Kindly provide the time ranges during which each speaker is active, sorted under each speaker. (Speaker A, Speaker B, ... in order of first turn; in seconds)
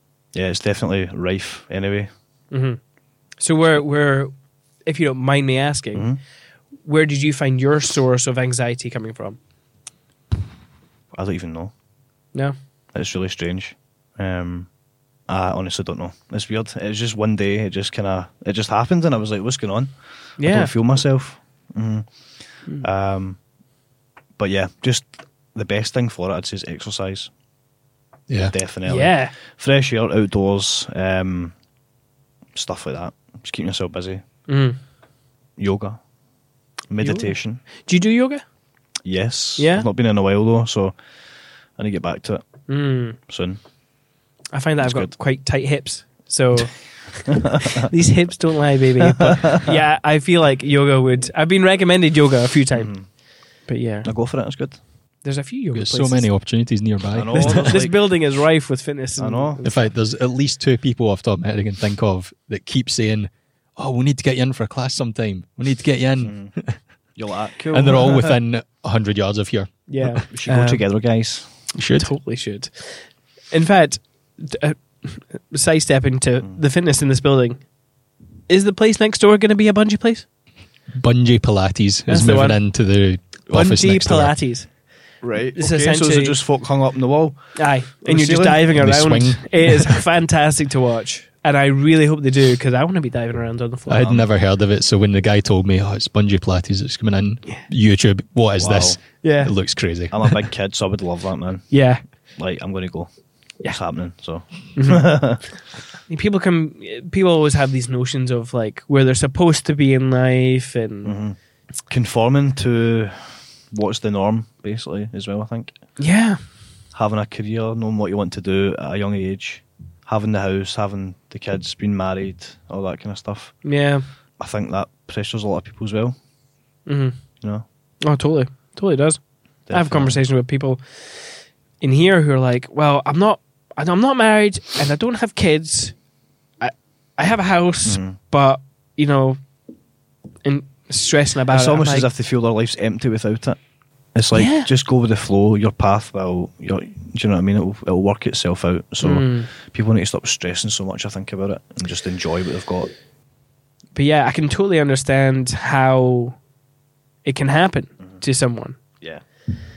Speaker A: 0.3-2.1, 5.9-6.2, 11.1-11.7, 12.9-14.7, 15.2-23.4, 24.4-27.3, 28.5-31.6, 32.5-34.2, 35.6-36.0, 36.9-37.6, 39.0-41.0, 41.7-43.6, 44.8-45.1, 49.2-49.6, 52.7-53.1, 54.0-54.8, 57.1-58.1, 59.2-59.6, 66.2-66.5, 67.1-68.3, 70.3-71.5, 85.2-88.7, 94.0-94.2, 98.6-99.0, 100.1-101.8, 102.3-105.5, 111.0-115.8, 116.9-123.6, 124.4-126.2, 129.7-130.2, 137.8-138.2, 141.5-143.6, 144.1-152.9
Speaker B: 2.5-2.8, 3.3-4.3, 4.8-6.2, 6.8-9.4, 20.4-20.7, 28.8-29.3, 34.5-34.8, 37.0-38.4, 39.6-39.9, 42.7-43.2, 44.5-54.1, 55.2-56.3, 57.3-60.0, 69.9-70.8, 71.8-77.7, 78.5-80.2, 82.1-82.8, 83.5-84.7, 85.5-86.4, 87.5-94.1, 99.2-99.5, 101.7-102.0, 104.7-105.6, 106.1-111.2, 116.0-116.4, 123.6-124.0, 126.8-127.2, 128.0-135.9, 136.6-139.4, 140.4-142.1, 144.3-144.7, 149.0-149.5, 153.9-156.4, 157.2-158.8
Speaker C: 28.3-28.5, 55.7-57.8, 59.6-66.8, 67.7-70.2, 71.7-72.1, 80.9-84.3, 88.7-90.0, 93.9-100.4